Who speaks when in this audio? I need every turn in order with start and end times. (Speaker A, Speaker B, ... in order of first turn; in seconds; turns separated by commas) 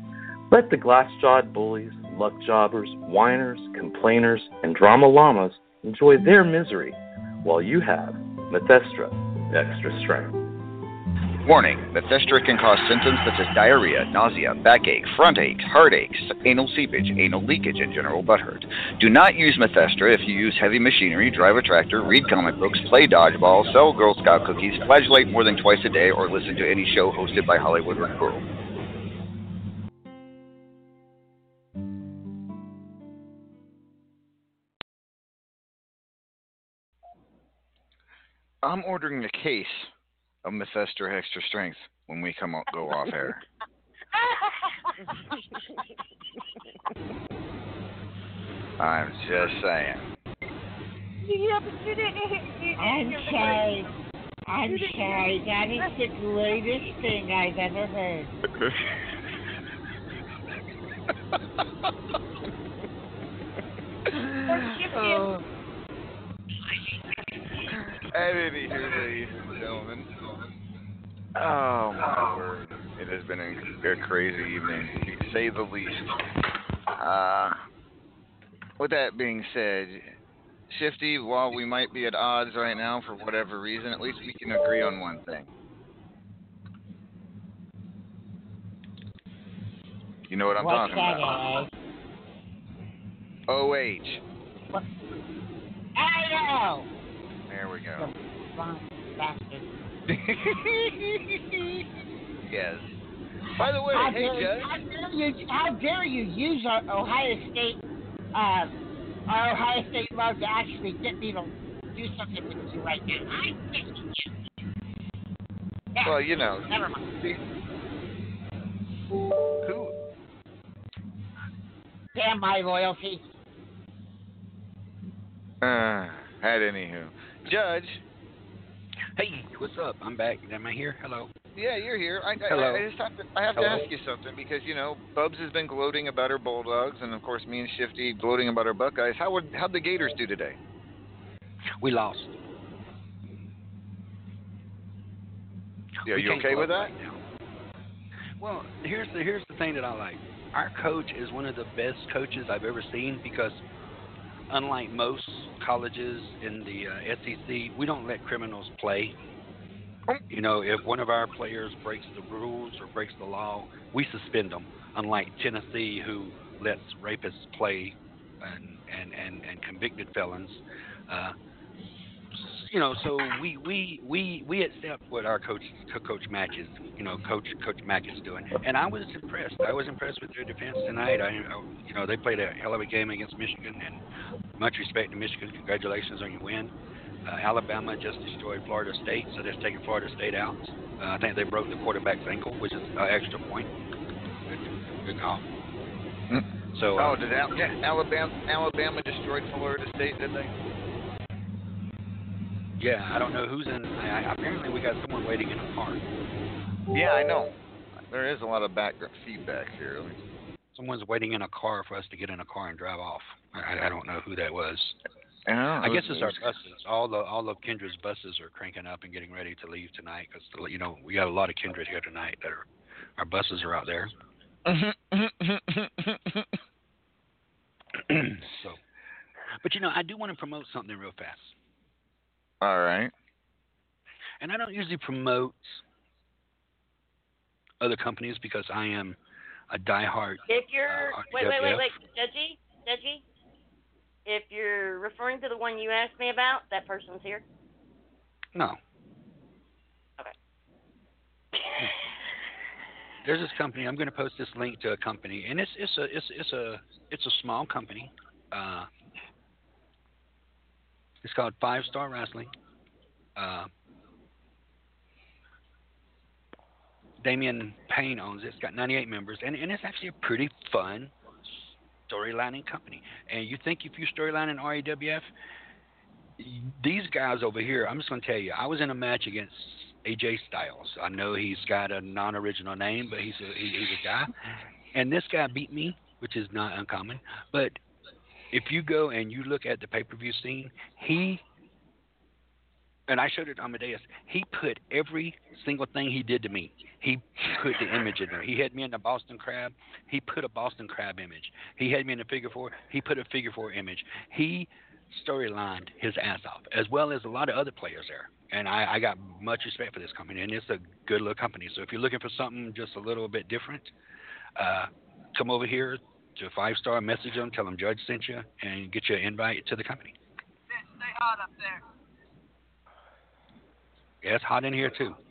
Speaker A: 0.5-10.3, Speaker B: 11.4-28.4, Speaker B: 38.6-39.9, Speaker B: 40.4-43.4, Speaker B: 48.8-50.1, Speaker C: 51.2-53.7, Speaker D: 52.8-53.9, Speaker D: 54.5-58.3, Speaker B: 58.5-58.8, Speaker B: 64.1-65.5, Speaker C: 64.6-65.2, Speaker B: 67.7-70.1, Speaker B: 71.3-76.0, Speaker B: 76.9-77.6, Speaker B: 78.8-80.1, Speaker B: 80.7-85.5, Speaker B: 90.3-91.4, Speaker D: 90.6-91.7, Speaker B: 93.5-94.2, Speaker D: 96.0-96.9, Speaker B: 97.5-98.1, Speaker D: 98.0-99.7, Speaker B: 100.1-101.4, Speaker B: 102.4-102.9, Speaker B: 103.6-104.7, Speaker D: 103.9-107.8, Speaker D: 108.3-108.7, Speaker D: 109.3-114.3, Speaker D: 115.9-117.1, Speaker B: 116.0-117.4, Speaker D: 122.1-123.2, Speaker B: 125.6-128.0, Speaker E: 129.2-131.3, Speaker B: 131.5-140.6, Speaker E: 132.5-132.8, Speaker E: 133.5-133.9, Speaker E: 141.8-142.3, Speaker E: 146.0-147.2, Speaker B: 146.1-146.9, Speaker E: 148.4-153.6, Speaker E: 154.5-159.2, Speaker E: 160.3-171.3, Speaker E: 172.3-184.0, Speaker E: 184.6-186.7, Speaker E: 187.2-193.7, Speaker E: 194.5-195.4, Speaker B: 196.3-200.5, Speaker E: 196.7-197.7, Speaker E: 202.8-206.0, Speaker B: 206.9-207.5, Speaker B: 208.1-210.2, Speaker E: 210.7-215.0, Speaker B: 215.5-216.6, Speaker E: 215.8-224.1, Speaker B: 224.7-226.6, Speaker E: 228.1-228.8, Speaker E: 229.6-231.5, Speaker B: 232.6-233.1, Speaker E: 234.4-235.8, Speaker E: 237.8-239.2, Speaker E: 239.7-241.9, Speaker C: 240.5-243.2, Speaker C: 244.2-247.4, Speaker E: 253.2-258.9, Speaker E: 261.2-262.5, Speaker E: 263.4-263.7, Speaker E: 267.2-271.1, Speaker E: 272.1-275.3, Speaker E: 276.4-284.3, Speaker E: 284.9-287.8, Speaker E: 288.5-291.4, Speaker E: 293.1-313.9, Speaker E: 314.6-320.1, Speaker E: 324.2-325.2